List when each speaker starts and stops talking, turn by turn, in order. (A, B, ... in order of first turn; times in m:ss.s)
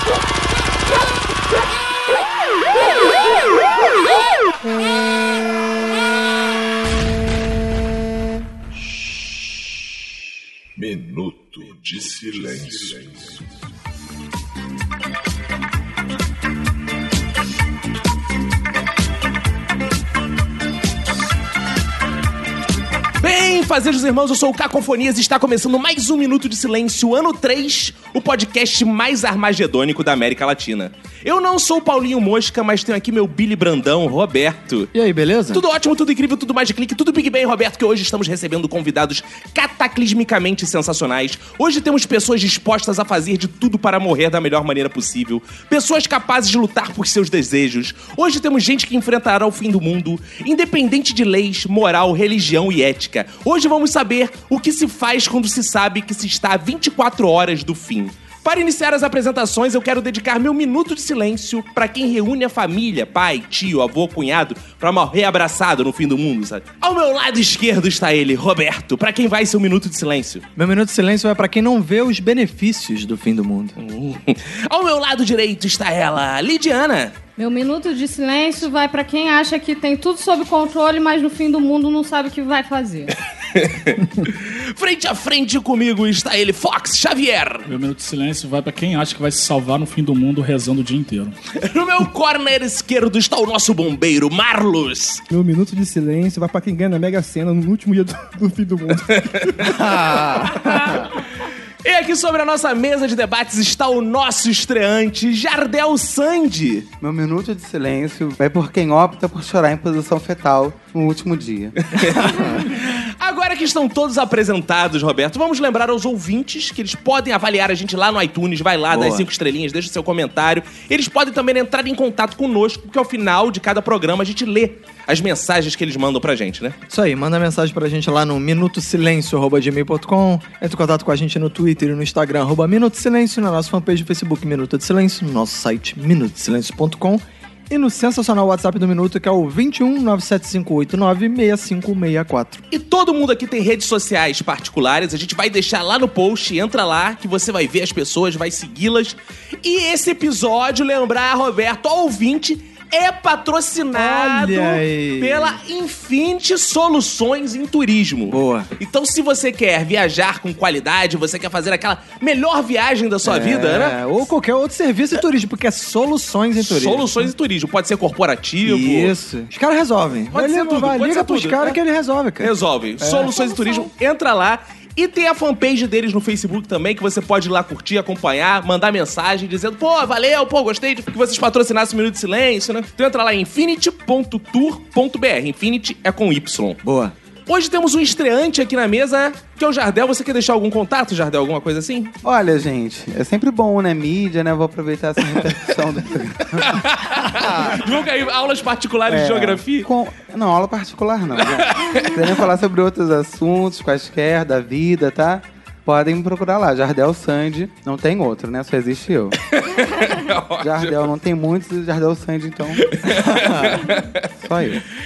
0:10.8-0:13.4 A
0:23.2-0:34.9 B
0:34.9-0:35.6 C
0:35.5-1:10.4 B
1:10.6-1:13.8 C
1:13.8-1:17.2 B
1:17.4-1:23.1 D
1:23.5-1:27.7 B
1:27.7-1:31.3 E
1:31.5-1:35.2 B
1:35.3-1:39.6 F
1:39.1-1:39.7 B
1:39.6-1:41.1 C
1:40.4-1:41.0 B
1:41.8-1:46.9 B
1:47.0-1:51.8 G
1:51.8-2:06.8 B
1:52.1-1:52.7 C
1:58.9-1:59.3 C
2:06.9-2:22.6 C
2:22.7-2:44.0 B
2:33.9-2:35.6 C
2:38.3-2:38.7 C
2:43.2-2:47.3 C
2:46.6-2:49.1 B
2:48.6-2:53.3 C
2:50.3-2:51.8 B
2:52.4-3:06.8 B
2:53.2-2:53.9 D
3:06.8-3:07.1 C
3:07.5-3:12.1 B
3:12.2-3:16.8 G
3:16.6-3:19.9 B
3:17.4-3:17.7 C
3:19.1-3:29.4 G
3:21.4-3:22.1 B
3:29.5-3:31.0 B
3:30.6-3:33.0 G
3:32.9-3:34.3 B
3:33.1-3:33.9 C
3:34.4-3:34.8 G